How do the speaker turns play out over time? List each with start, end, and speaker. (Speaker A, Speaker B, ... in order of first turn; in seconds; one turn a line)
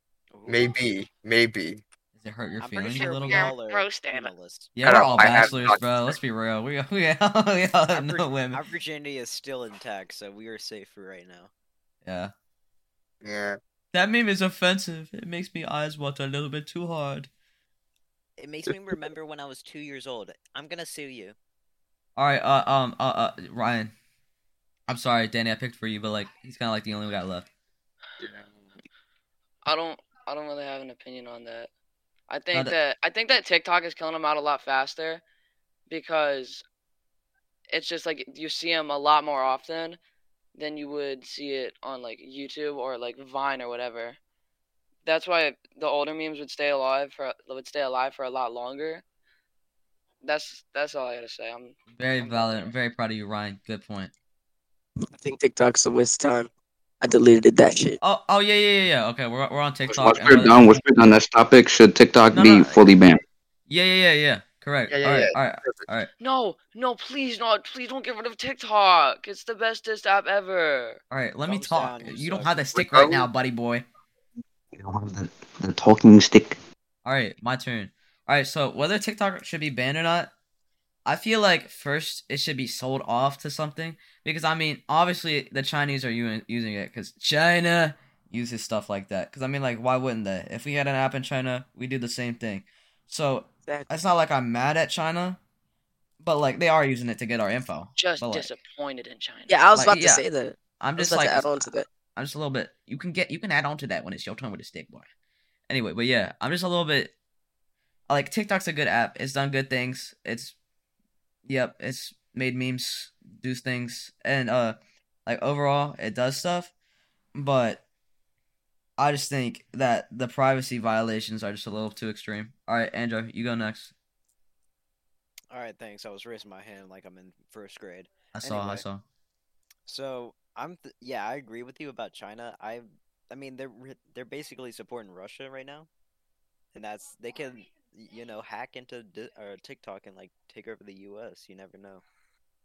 Speaker A: 0.3-0.7
Speaker B: 0.5-1.8
Speaker C: 2.1-3.5
Speaker A: 2.6-4.7
Speaker D: 3.3-4.3
Speaker C: 4.8-8.6
Speaker B: 4.8-6.2
Speaker A: 7.9-11.5
Speaker C: 12.1-12.3
Speaker B: 13.2-13.6
Speaker C: 13.9-17.3
Speaker A: 18.4-21.4
Speaker C: 22.2-23.9
Speaker C: 24.9-27.5
Speaker D: 29.6-31.7
Speaker D: 32.3-35.2
Speaker D: 35.9-36.6
Speaker D: 37.7-40.0
Speaker D: 40.5-44.2
Speaker D: 45.0-49.0
Speaker D: 50.2-52.7
Speaker C: 52.0-54.1
Speaker E: 55.2-56.5
Speaker E: 57.0-58.0
Speaker C: 58.0-60.6
Speaker F: 59.9-63.2
Speaker C: 62.3-62.9
Speaker C: 63.7-66.1
Speaker B: 64.9-65.9
Speaker D: 66.2-71.0
Speaker C: 71.1-73.8
Speaker A: 71.5-72.6
Speaker B: 72.8-73.3
Speaker F: 74.7-76.6
Speaker C: 77.0-80.3
Speaker C: 81.0-95.4
Speaker C: 96.2-98.5
Speaker D: 98.0-99.6
Speaker E: 99.5-101.9
Speaker C: 99.8-100.2
Speaker C: 100.8-101.6
Speaker C: 102.2-105.1
Speaker C: 105.7-107.1
Speaker C: 108.1-110.5
Speaker C: 111.5-116.7
Speaker C: 117.3-117.8
Speaker C: 119.0-123.9
Speaker A: 125.5-128.8
Speaker C: 128.3-129.0
Speaker A: 129.9-135.9
Speaker A: 136.7-142.0